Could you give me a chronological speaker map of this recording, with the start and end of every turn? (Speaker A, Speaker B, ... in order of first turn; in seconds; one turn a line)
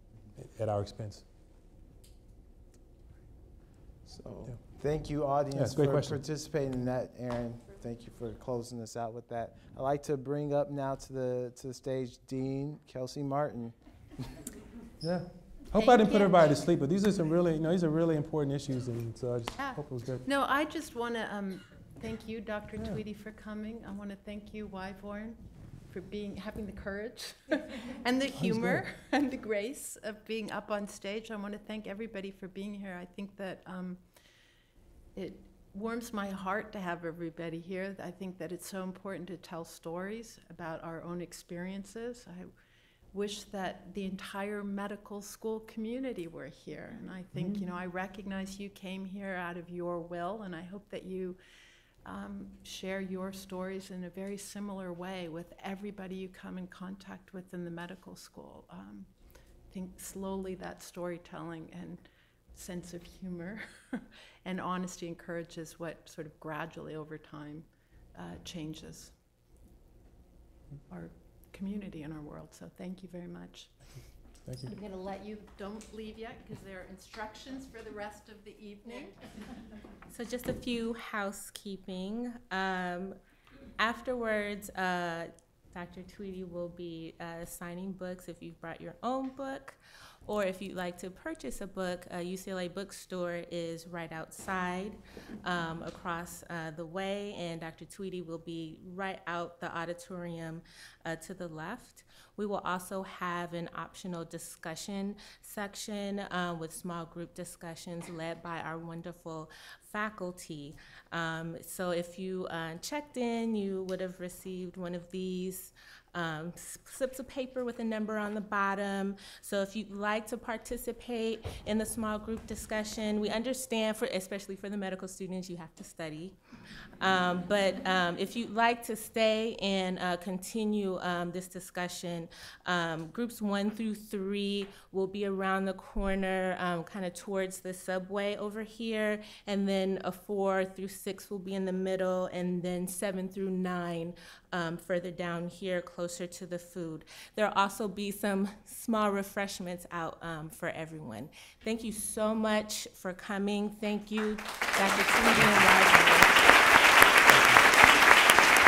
Speaker A: 0.3-1.2
Speaker B: 4.1-13.8
Speaker A: 5.5-6.2
Speaker A: 15.0-20.3
Speaker C: 15.8-16.5
Speaker D: 20.2-34.0
Speaker A: 28.3-28.8
Speaker D: 35.1-42.5
Speaker D: 43.1-51.4
Speaker A: 47.3-47.7
Speaker D: 52.0-59.1
Speaker D: 59.7-69.1
Speaker D: 70.9-74.0
Speaker A: 74.4-74.7
Speaker D: 74.6-79.2
Speaker C: 80.1-83.2
Speaker C: 83.8-126.4
Speaker C: 127.0-156.4